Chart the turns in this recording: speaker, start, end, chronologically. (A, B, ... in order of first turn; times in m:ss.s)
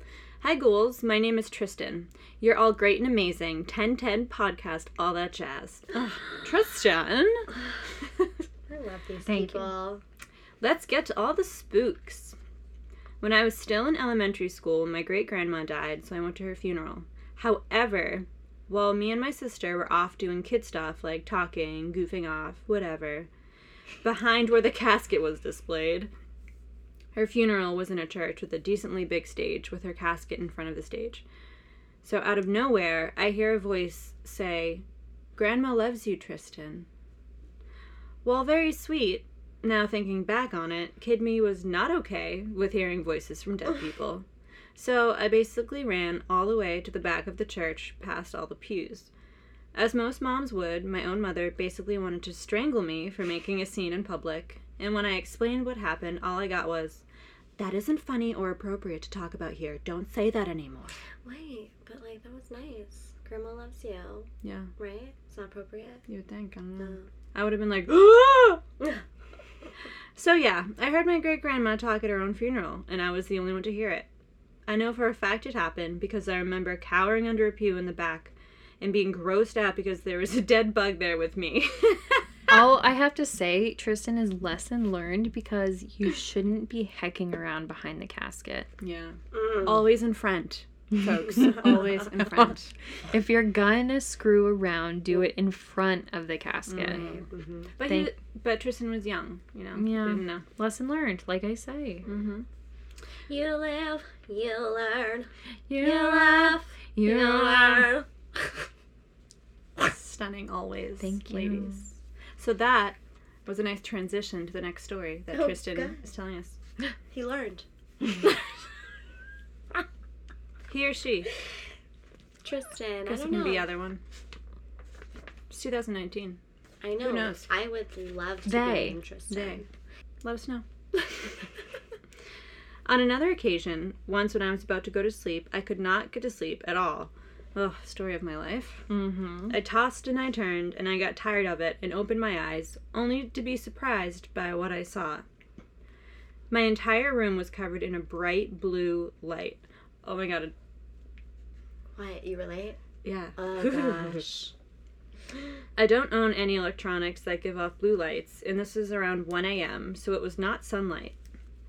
0:00.4-0:07.5 A
0:08.7-0:10.0 B
0:09.2-0:09.7 C
0:10.6-0:12.4 A
0:13.2-0:23.3 A
0:24.0-0:26.1 A
0:27.1-0:31.2 A
0:32.0-0:34.8 A
0:35.4-0:36.9 A
0:38.2-0:44.2 A
0:44.8-0:49.1 A
0:49.7-0:57.0 A
0:57.6-1:01.0 A
1:01.2-1:06.0 B
1:04.4-1:04.7 A
1:06.1-1:08.6 A
1:06.8-1:07.1 B
1:10.2-1:14.1 A
1:14.7-1:22.2 A
1:22.5-1:28.7 C
1:28.8-1:32.7 A
1:29.3-1:29.8 B
1:31.0-1:32.5 C
1:33.1-1:37.1 C
1:36.7-1:37.2 A
1:36.9-1:37.7 B
1:37.8-1:40.4 A
1:37.8-1:38.1 C
1:39.8-1:42.1 C
1:42.1-1:42.5 A
1:43.3-1:48.6 B
1:45.7-1:47.9 C
1:49.8-1:51.8 A
1:51.0-1:51.9 C
1:52.4-1:56.6 A
1:55.3-1:56.0 B
1:57.1-1:58.5 B
2:00.7-2:01.3 A
2:02.4-2:03.7 B
2:03.0-2:04.0 A
2:05.5-2:06.4 A
2:06.8-2:09.7 B
2:07.0-2:07.4 A
2:08.4-2:09.0 C
2:09.3-2:09.6 A
2:10.2-2:10.6 A
2:12.9-2:18.9 A
2:18.9-2:19.6 C
2:19.5-2:25.2 A
2:26.5-2:30.5 A
2:32.0-2:32.8 B
2:33.0-2:34.2 A
2:33.4-2:34.5 B
2:35.8-2:41.2 A